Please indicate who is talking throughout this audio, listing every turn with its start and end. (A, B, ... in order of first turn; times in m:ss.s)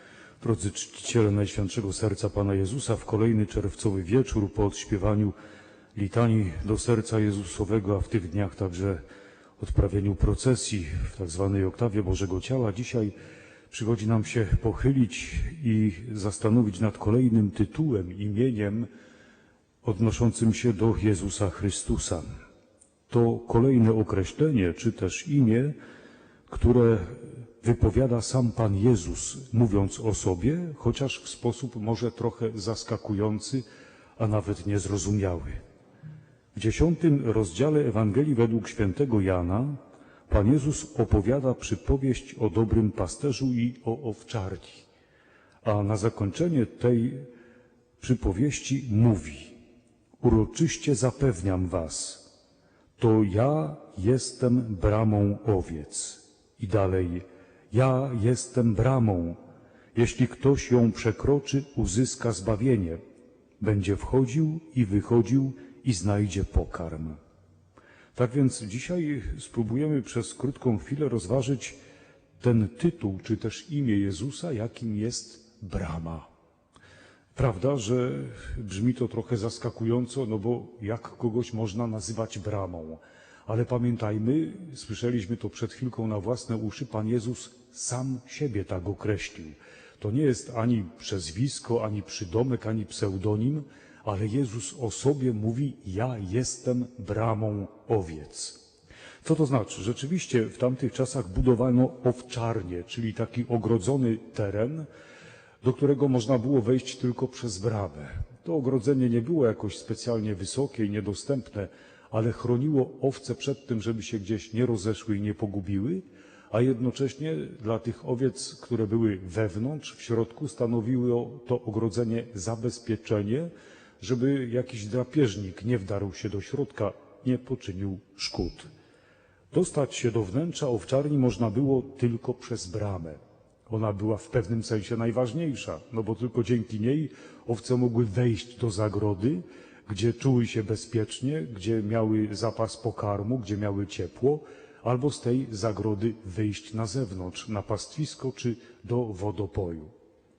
0:00.4-0:05.3 A
0:05.9-0:09.0 A
0:09.6-0:13.1 A
0:13.7-0:18.9 A
0:19.8-0:22.2 A
0:23.1-0:25.7 A
0:26.5-0:33.6 A
0:34.2-0:35.6 A
0:36.5-0:44.9 A
0:45.6-0:47.2 A
0:48.0-0:49.6 A
0:50.2-0:52.2 A
0:53.0-0:59.4 A
0:59.9-1:03.0 A
1:03.6-1:07.2 A
1:08.1-1:11.8 A
1:12.4-1:16.3 A
1:17.4-1:38.6 A
1:39.2-1:44.9 A
1:45.6-2:08.7 A
2:09.5-2:29.9 A